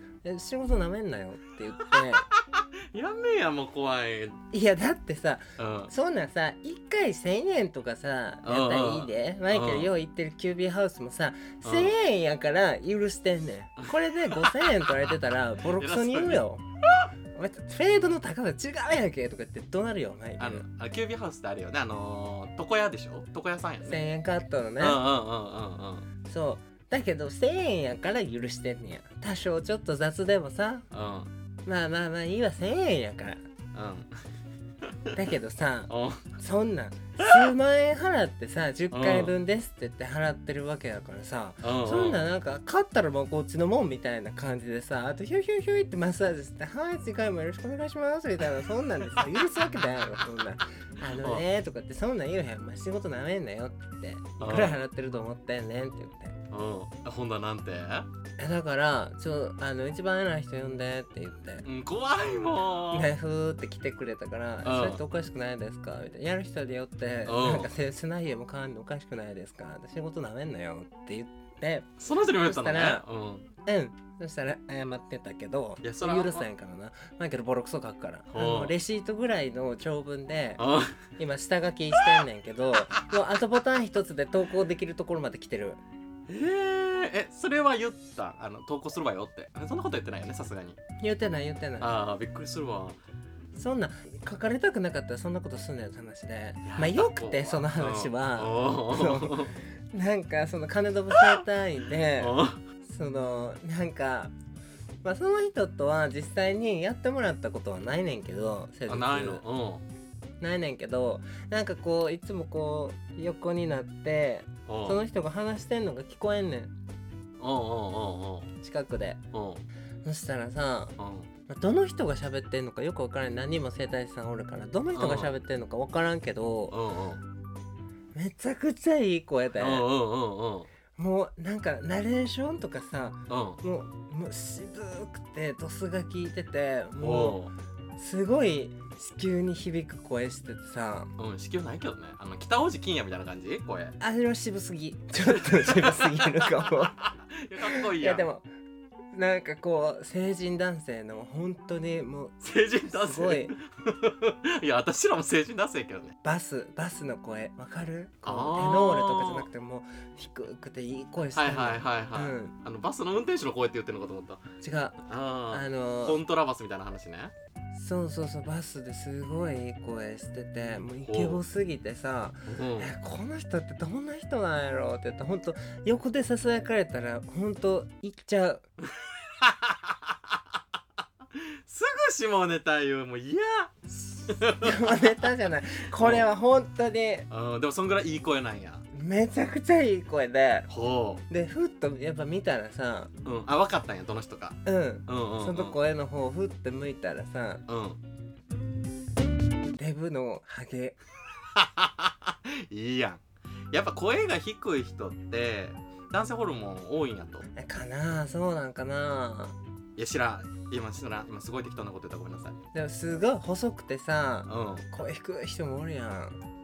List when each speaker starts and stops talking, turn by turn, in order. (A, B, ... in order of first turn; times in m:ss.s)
0:00.2-0:02.3 A
0:02.2-0:04.4 B
0:04.5-0:16.6 A
0:05.6-0:05.9 B
0:08.4-0:09.9 B
0:11.6-0:11.9 B
0:13.8-0:14.8 B
0:15.8-0:16.4 B
0:17.3-0:20.6 A
0:20.4-0:24.0 B
0:23.8-0:25.0 A
0:24.8-0:26.1 B
0:26.2-0:30.8 A
0:30.9-0:31.3 B
0:31.6-0:33.4 A
0:33.7-0:34.1 B
0:35.1-0:56.3 A
0:35.9-0:36.3 B
0:37.2-0:37.5 B
0:38.9-0:39.3 B
0:41.6-0:42.2 B
0:51.2-0:51.4 B
0:54.4-0:54.8 B
0:56.5-0:58.1 B
0:58.4-1:01.6 A
1:01.6-1:03.1 B
1:02.9-1:11.9 A
1:04.6-1:05.0 B
1:07.2-1:07.7 B
1:12.0-1:13.5 B
1:12.4-1:13.0 A
1:13.6-1:20.6 A
1:15.8-1:16.4 B
1:18.3-1:18.7 B
1:20.6-1:21.0 B
1:21.2-1:25.8 A
1:21.9-1:22.2 B
1:26.3-1:30.8 B
1:31.0-1:31.9 A
1:31.8-1:33.0 B
1:33.5-1:44.3 A
1:36.6-1:39.6 B
1:42.2-1:42.6 B
1:45.0-1:49.4 A
1:48.9-1:49.8 B
1:50.4-1:56.7 A
1:54.7-1:55.0 B
1:57.4-1:58.5 B
1:58.6-1:59.2 A
1:59.3-1:59.6 B
2:00.0-2:00.9 A
2:01.0-2:01.3 B
2:01.5-2:06.7 A
2:04.9-2:05.3 B
2:06.7-2:07.2 B
2:08.1-2:09.8 A
2:09.6-2:10.7 B
2:10.9-2:17.4 A
2:13.3-2:13.6 B
2:17.0-2:17.5 B
2:18.0-2:21.1 A
2:21.2-2:23.9 B
2:24.0-2:26.9 A
2:25.1-2:28.3 B
2:27.6-2:28.4 A
2:29.1-2:32.3 A
2:32.4-2:36.1 B
2:32.9-2:33.5 A
2:36.2-2:42.5 A
2:38.2-2:39.5 B
2:41.3-2:44.4 B
2:44.6-2:45.0 A
2:45.0-2:47.3 B
2:45.5-2:46.2 A
2:47.7-2:58.6 A
2:51.0-2:51.4 B
2:52.5-2:52.9 B
2:59.3-3:00.3 B
3:01.3-3:05.3 B
3:04.6-3:07.3 A
3:05.9-3:06.3 B
3:07.3-3:08.8 B
3:08.9-3:10.7 A
3:10.7-3:11.2 B
3:11.3-3:13.1 A
3:13.2-3:15.7 B
3:14.6-3:17.6 A
3:17.7-3:18.0 B
3:19.8-3:21.0 A
3:21.5-3:27.4 B
3:27.6-3:29.6 A
3:30.0-3:32.6 B
3:32.7-3:36.4 A
3:34.5-3:34.9 B